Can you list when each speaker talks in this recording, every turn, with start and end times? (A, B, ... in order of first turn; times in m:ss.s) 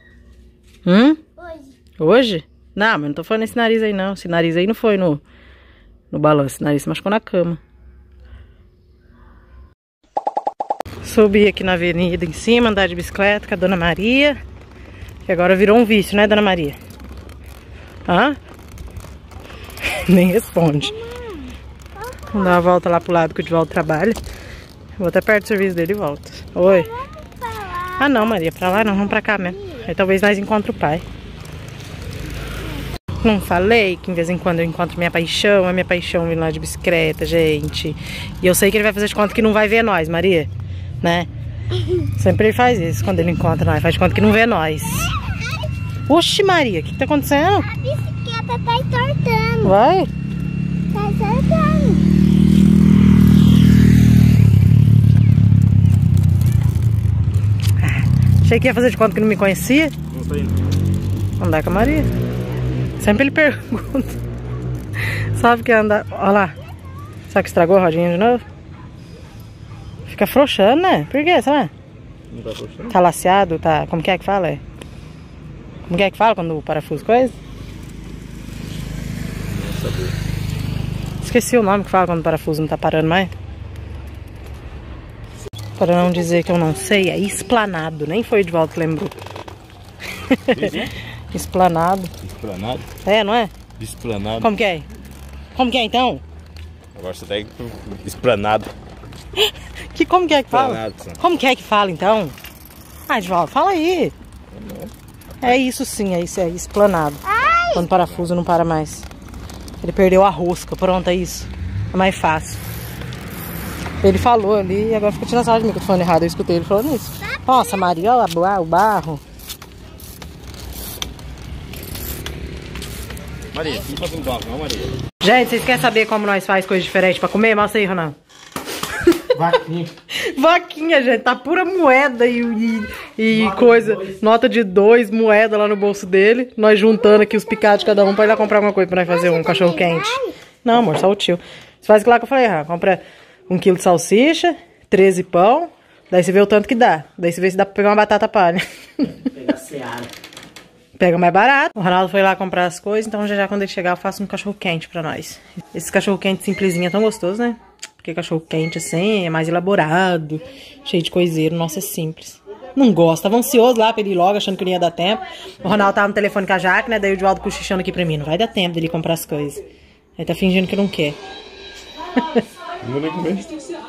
0:00.8-0:01.2 A
0:01.4-0:01.8 B
0:02.0-0:05.2 A
0:06.1-0:07.6 A
0:11.0-0:14.4 A
0:15.2-0:16.8 A
0:18.1-0:18.4 A
0:19.8-0:21.0 A
0:20.8-0:22.6 B
0:22.3-0:24.2 A
0:25.0-0:26.9 A
0:26.6-0:29.8 B
0:28.0-0:31.0 A
0:33.2-0:40.5 A
0:41.0-0:41.3 A
0:41.8-0:42.1 B
0:42.2-0:45.1 A
0:46.1-0:47.7 A
0:47.6-0:49.7 B
0:49.6-0:50.1 A
0:50.9-0:52.1 B
0:57.8-0:59.9 A
1:00.1-1:00.6 C
1:01.4-1:02.1 A
1:03.0-1:04.2 A
1:05.3-1:06.5 A
1:07.3-1:08.4 A
1:10.1-1:11.7 A
1:12.3-1:12.9 C
1:12.9-1:14.6 A
1:15.9-1:17.4 A
1:19.5-1:20.2 C
1:21.2-1:23.3 A
1:25.8-1:29.1 A
1:30.2-1:30.8 A
1:30.5-1:30.9 C
1:31.3-1:32.1 A
1:32.2-1:32.9 C
1:33.0-1:33.5 A
1:33.8-1:34.5 C
1:34.4-1:34.9 A
1:35.6-1:36.2 A
1:36.9-1:38.7 C
1:39.4-1:42.4 A
1:40.5-1:41.2 C
1:43.1-1:44.1 A
1:44.5-1:44.9 C
1:45.4-1:49.1 A
1:47.3-1:47.8 B
1:49.8-1:52.6 A
1:54.0-1:59.2 A
1:57.5-1:58.0 B
2:03.5-2:05.0 C
2:05.2-2:08.2 A
2:09.0-2:09.4 A
2:09.4-2:09.9 D
2:10.1-2:29.1 A
2:13.5-2:14.0 D
2:19.1-2:20.3 B
2:29.3-2:30.1 D
2:31.0-2:49.6 A
2:50.2-2:51.2 A
2:52.8-2:53.6 C